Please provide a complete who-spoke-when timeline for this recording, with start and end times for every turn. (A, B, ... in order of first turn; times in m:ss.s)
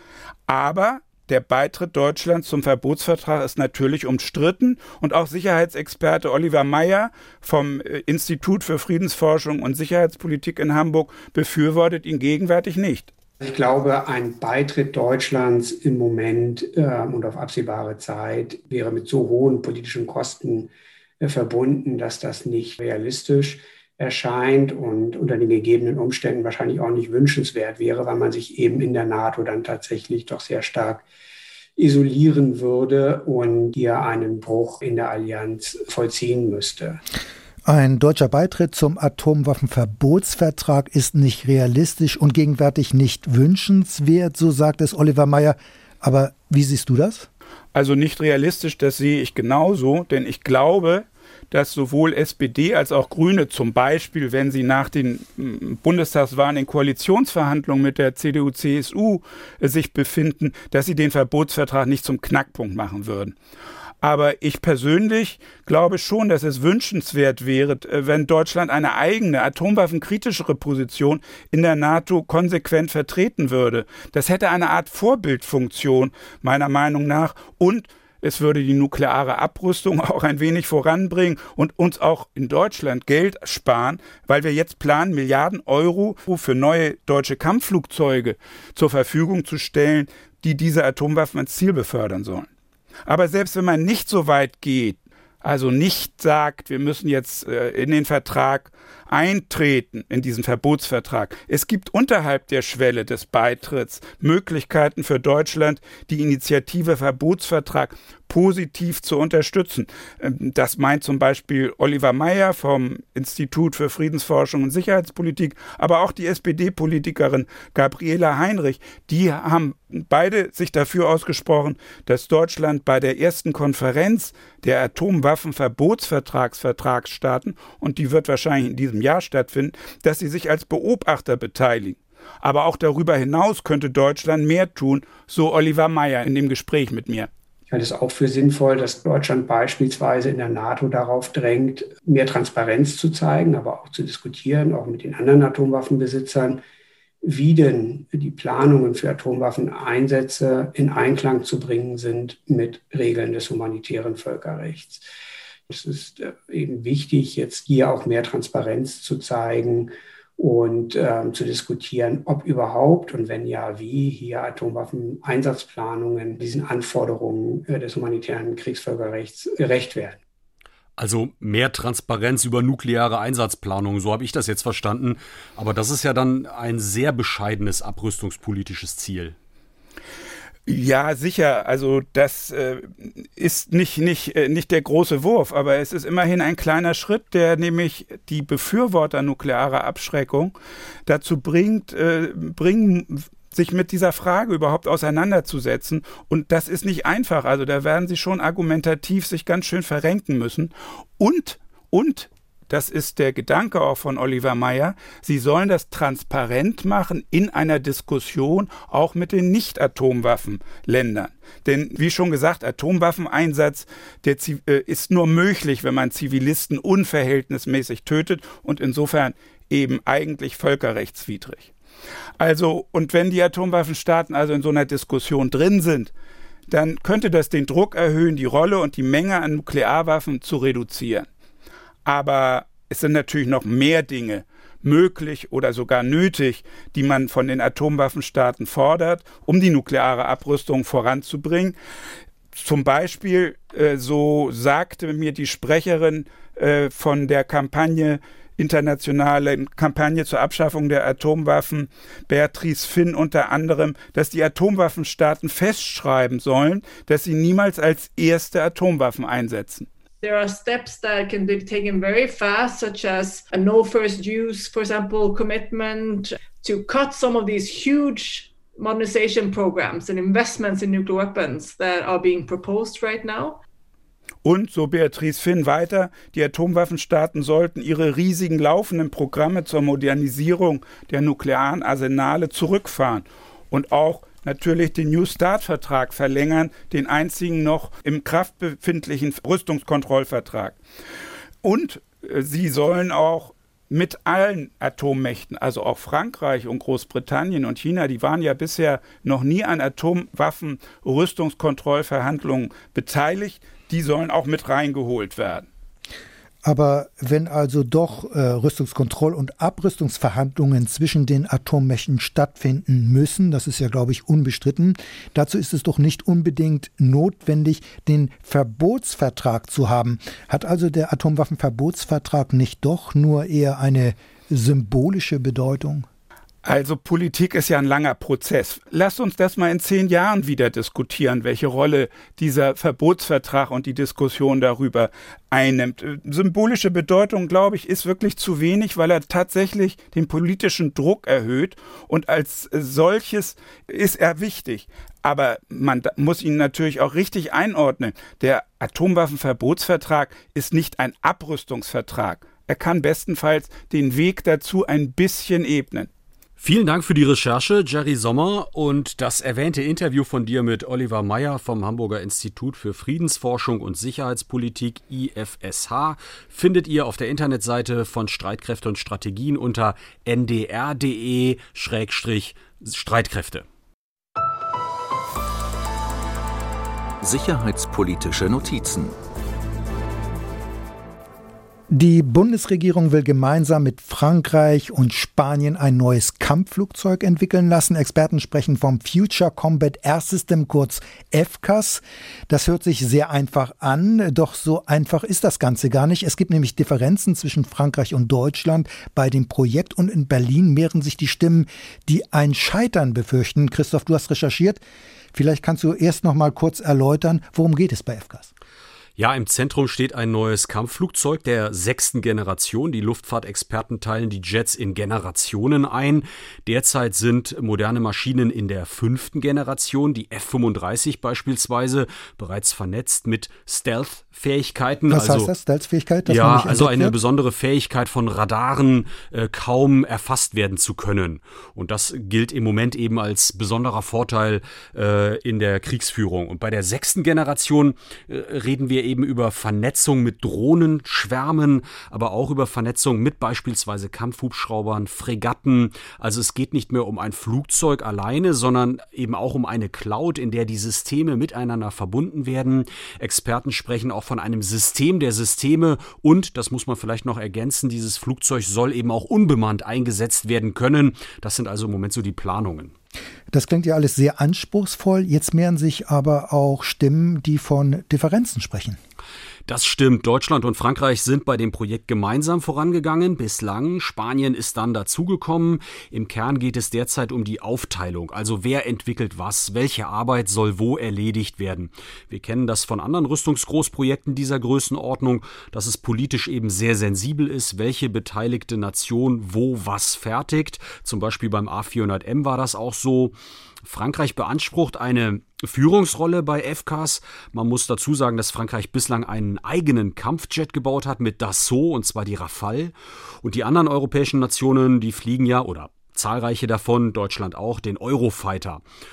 0:00.5-0:13.1 A
0:13.4-0:31.1 B
0:31.8-0:37.0 B
0:37.6-0:47.3 C
0:47.7-1:03.4 A
1:04.0-1:32.5 A
1:33.1-2:17.3 A
2:17.7-2:26.6 B
2:27.2-2:35.1 B
2:35.7-2:50.2 B
2:51.0-2:59.4 D
3:00.7-3:10.5 A
3:11.1-3:41.7 A
3:42.4-3:46.1 A
3:46.7-3:51.3 A
3:52.1-4:01.8 A
4:02.5-4:19.9 A
4:20.2-4:33.6 E
4:34.4-4:50.8 A
4:51.6-5:05.7 A
5:06.6-5:26.1 C
5:26.6-5:56.1 A
5:56.6-6:13.7 D
6:17.2-6:19.2 F
6:21.9-6:44.8 C
6:45.3-6:48.5 C
6:49.2-7:05.5 D
7:05.1-7:07.2 C
7:06.2-7:42.9 D
7:43.5-7:49.0 C
7:49.7-8:28.8 D